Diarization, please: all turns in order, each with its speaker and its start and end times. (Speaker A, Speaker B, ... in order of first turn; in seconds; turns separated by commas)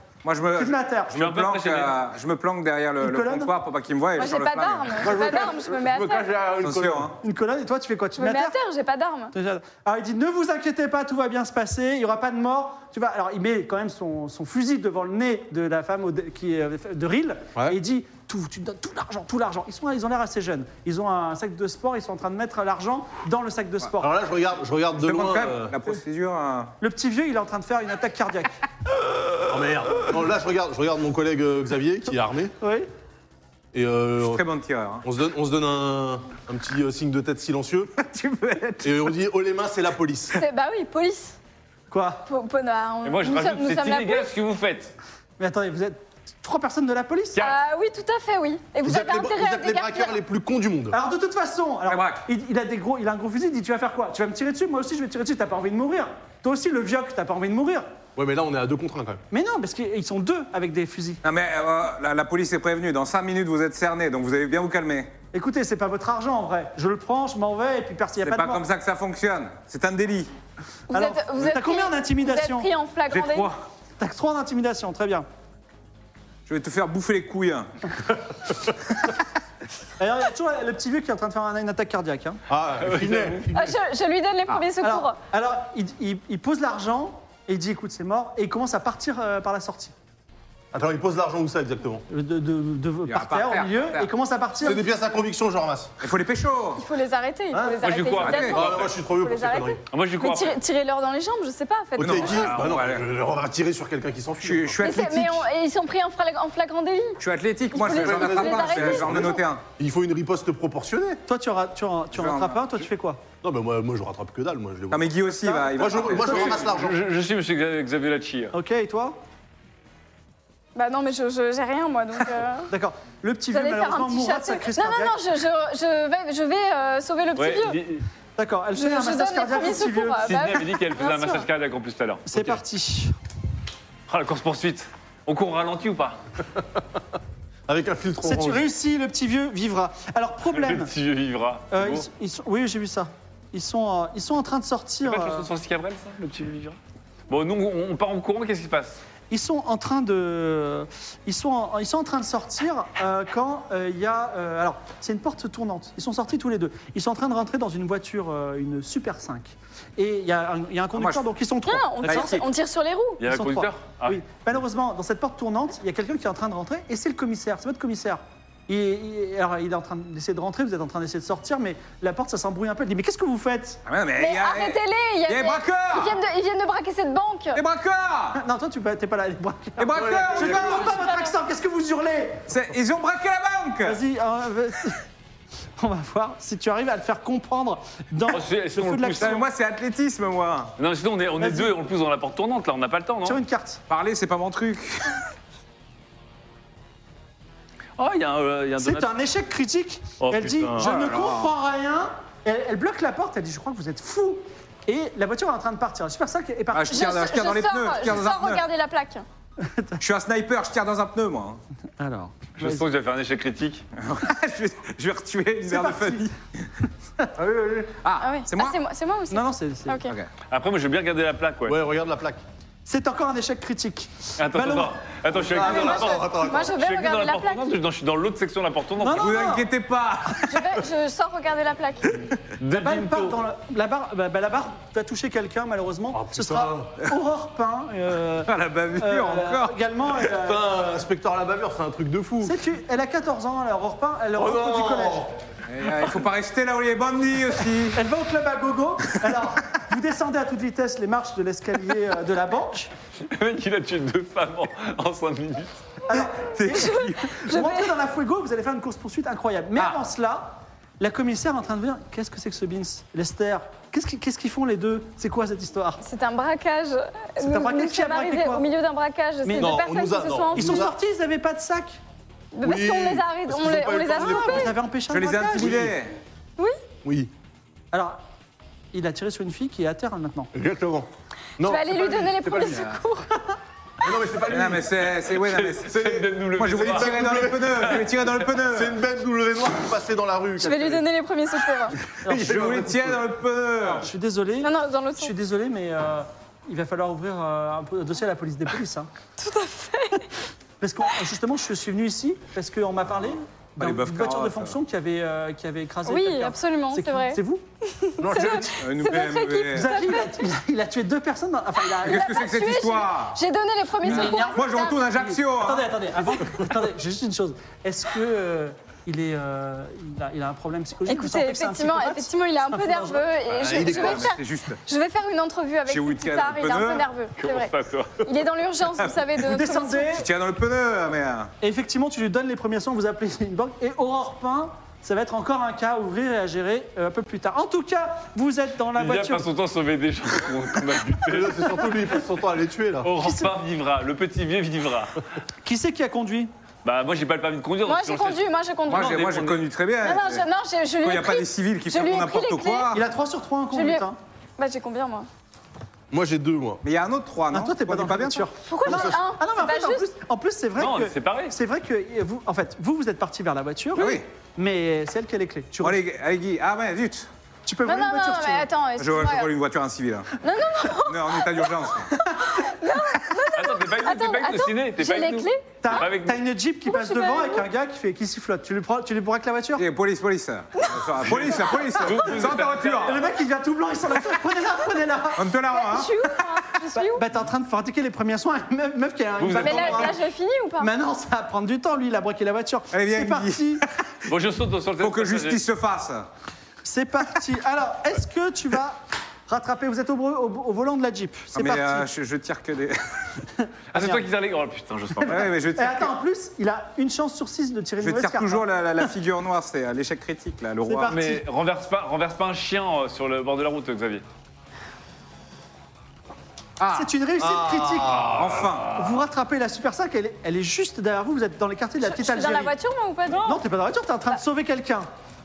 Speaker A: 0.2-5.1, Speaker B: 0.6-1.2, Speaker C: 1.1-2.0, Speaker B: 3.0-3.5, Speaker D: 4.2-6.4, Speaker E: 5.0-7.1, Speaker A: 6.6-7.1, Speaker B: 7.2-8.6, Speaker D: 8.2-9.3, Speaker B: 9.3-24.1, Speaker E: 24.0-25.8, Speaker A: 25.0-26.7, Speaker B: 26.8-28.6, Speaker E: 29.5-32.5, Speaker B: 32.6-32.9, Speaker E: 33.7-34.4, Speaker A: 34.2-35.0, Speaker E: 35.0-37.9, Speaker A: 38.0-39.1, Speaker E: 38.8-40.4, Speaker D: 40.3-41.4, Speaker B: 41.9-42.2, Speaker D: 42.2-44.3, Speaker C: 43.0-44.9, Speaker B: 45.4-47.4, Speaker D: 47.4-50.1, Speaker E: 48.8-51.0, Speaker B: 50.9-57.9, Speaker A: 51.9-52.2, Speaker E: 58.1-59.2, Speaker B: 59.3-61.2, Speaker A: 61.2-65.1, Speaker B: 65.3-68.6, Speaker A: 68.2-70.3, Speaker D: 70.9-73.5, Speaker B: 70.9-72.7, Speaker A: 73.1-73.5, Speaker B: 74.0-75.2, Speaker A: 76.5-77.9, Speaker B: 80.0-82.4, Speaker E: 82.5-83.7, Speaker C: 82.8-83.4, Speaker D: 83.5-85.2, Speaker B: 84.8-89.9, Speaker E: 90.7-92.0, Speaker B: 92.1-94.8, Speaker A: 93.0-94.1, Speaker E: 94.6-95.9, Speaker A: 96.0-96.8, Speaker D: 96.8-102.5, Speaker E: 97.5-99.8, Speaker C: 97.8-98.9, Speaker A: 98.2-98.7, Speaker C: 99.9-100.6, Speaker E: 102.0-104.8, Speaker A: 102.0-103.0, Speaker C: 102.3-102.7, Speaker A: 104.4-105.5, Speaker D: 104.8-107.2, Speaker A: 107.2-109.6, Speaker D: 107.7-109.4, Speaker E: 107.9-111.2, Speaker B: 111.3-113.2, Speaker A: 112.1-112.6, Speaker E: 113.4-117.0, Speaker A: 114.9-116.7, Speaker B: 115.5-116.3, Speaker C: 116.4-118.5, Speaker B: 118.5-119.2, Speaker D: 120.7-122.7, Speaker B: 122.7-125.2, Speaker D: 123.5-127.8, Speaker C: 127.3-128.0, Speaker B: 128.4-130.3, Speaker D: 128.7-131.4, Speaker C: 130.2-132.6, Speaker B: 132.3-133.1, Speaker C: 134.1-136.2, Speaker E: 137.7-138.7, Speaker B: 138.2-140.9, Speaker C: 140.5-142.1, Speaker B: 141.7-145.5, Speaker C: 145.0-146.8, Speaker C: 147.3-149.0, Speaker B: 149.3-162.4, Speaker A: 160.9-161.3, Speaker D: 161.7-163.2, Speaker A: 162.1-162.3, Speaker C: 163.2-164.2, Speaker B: 163.3-173.8, Speaker A: 173.8-176.2, Speaker D: 174.2-177.6, Speaker A: 177.5-178.4, Speaker B: 178.3-182.5, Speaker A: 179.8-181.0, Speaker E: 179.9-180.9, Speaker D: 180.9-181.3, Speaker A: 182.5-184.0, Speaker B: 183.8-185.0, Speaker B: 185.8-189.4, Speaker C: 188.3-189.4, Speaker A: 189.2-190.7, Speaker C: 190.8-193.4, Speaker B: 191.4-191.7, Speaker B: 193.2-193.8, Speaker A: 193.9-195.2, Speaker C: 198.0-199.1, Speaker B: 198.8-207.0, Speaker C: 200.2-200.9, Speaker A: 200.8-201.5, Speaker A: 206.7-208.6, Speaker D: 206.9-209.2, Speaker B: 209.6-210.0, Speaker A: 210.0-211.6, Speaker B: 212.0-212.8, Speaker C: 212.6-213.8, Speaker A: 214.0-216.3, Speaker B: 215.7-216.3, Speaker E: 217.4-217.9, Speaker A: 218.0-218.8, Speaker D: 218.2-220.1, Speaker B: 219.3-220.0, Speaker A: 220.0-220.3, Speaker C: 220.5-221.8, Speaker E: 221.7-222.4, Speaker B: 222.8-225.0, Speaker C: 224.4-229.4, Speaker E: 225.3-226.8, Speaker D: 225.8-227.7, Speaker B: 229.0-229.7, Speaker A: 229.1-230.7, Speaker D: 230.5-232.2, Speaker C: 232.6-233.4, Speaker B: 232.7-240.6, Speaker E: 236.1-236.9, Speaker A: 238.5-239.8, Speaker E: 240.4-242.6, Speaker B: 242.4-245.3, Speaker E: 244.3-245.3, Speaker A: 245.7-248.0, Speaker B: 247.9-252.9, Speaker C: 253.2-255.8, Speaker B: 256.1-266.0, Speaker A: 256.1-257.4, Speaker D: 256.7-257.9, Speaker D: 266.0-270.9, Speaker B: 267.4-268.6, Speaker B: 269.4-269.8, Speaker E: 269.5-270.9, Speaker B: 270.5-272.0, Speaker D: 272.5-274.7, Speaker E: 272.6-274.7, Speaker B: 274.1-275.9, Speaker A: 275.1-276.2, Speaker E: 275.6-275.9, Speaker E: 277.0-277.3, Speaker B: 277.9-278.2, Speaker B: 278.9-280.5, Speaker E: 280.5-281.1, Speaker E: 281.6-282.8, Speaker D: 281.6-283.3, Speaker A: 282.7-283.0, Speaker E: 284.0-285.0, Speaker A: 284.5-285.9, Speaker C: 285.2-288.5, Speaker E: 285.8-288.0, Speaker A: 286.6-289.0, Speaker E: 288.6-291.0, Speaker D: 290.6-292.0, Speaker E: 292.0-293.2, Speaker B: 292.2-292.8, Speaker A: 292.3-294.1, Speaker B: 293.8-299.1, Speaker D: 294.6-295.3, Speaker D: 299.4-300.3, Speaker B: 300.8-307.6, Speaker A: 303.8-304.8, Speaker D: 306.0-310.5, Speaker A: 308.3-310.0, Speaker B: 309.7-312.4, Speaker D: 311.9-315.0, Speaker A: 312.0-313.4, Speaker B: 314.0-323.2, Speaker A: 314.0-316.0, Speaker D: 321.1-330.1, Speaker E: 323.6-324.4, Speaker A: 323.6-324.8, Speaker A: 325.9-327.1, Speaker C: 327.4-328.2, Speaker B: 329.4-330.3, Speaker A: 330.1-331.5, Speaker B: 331.6-339.5, Speaker C: 339.0-341.8, Speaker E: 341.3-343.1, Speaker C: 343.0-345.2, Speaker B: 343.2-343.6, Speaker B: 345.6-346.5, Speaker C: 346.8-349.6, Speaker D: 347.8-349.2, Speaker A: 348.9-350.4, Speaker D: 350.0-352.9, Speaker A: 351.0-353.0, Speaker B: 352.9-354.2, Speaker D: 353.7-354.1, Speaker D: 354.6-355.3, Speaker E: 356.1-356.8, Speaker A: 356.8-358.5, Speaker B: 357.5-366.0, Speaker D: 358.6-360.1, Speaker E: 358.9-359.2, Speaker C: 360.8-361.5, Speaker A: 363.9-364.2, Speaker A: 365.8-367.3, Speaker B: 367.6-368.7, Speaker D: 367.9-369.5, Speaker A: 369.0-370.4, Speaker D: 370.4-371.7, Speaker A: 371.0-372.1, Speaker B: 372.2-372.4, Speaker D: 372.3-376.0, Speaker C: 373.5-376.4, Speaker B: 375.8-379.8, Speaker D: 376.9-377.6, Speaker A: 379.8-383.2, Speaker D: 380.8-381.1, Speaker C: 381.2-383.3, Speaker B: 383.0-385.5, Speaker A: 385.4-386.1, Speaker D: 385.7-387.2, Speaker B: 386.9-390.2, Speaker C: 389.4-390.1, Speaker D: 389.6-390.9, Speaker B: 390.8-393.8, Speaker A: 392.9-393.8, Speaker C: 394.3-395.6, Speaker A: 395.0-396.3, Speaker B: 396.8-402.1, Speaker A: 401.5-403.2, Speaker B: 403.6-404.2, Speaker C: 403.9-405.5, Speaker B: 405.2-409.1, Speaker A: 405.2-406.1, Speaker A: 408.0-411.1, Speaker B: 410.9-411.4, Speaker C: 411.1-414.2, Speaker A: 416.8-417.1, Speaker B: 416.9-418.3, Speaker E: 417.4-418.6, Speaker A: 418.3-419.0, Speaker B: 418.9-422.7, Speaker D: 422.0-423.6, Speaker B: 423.4-425.1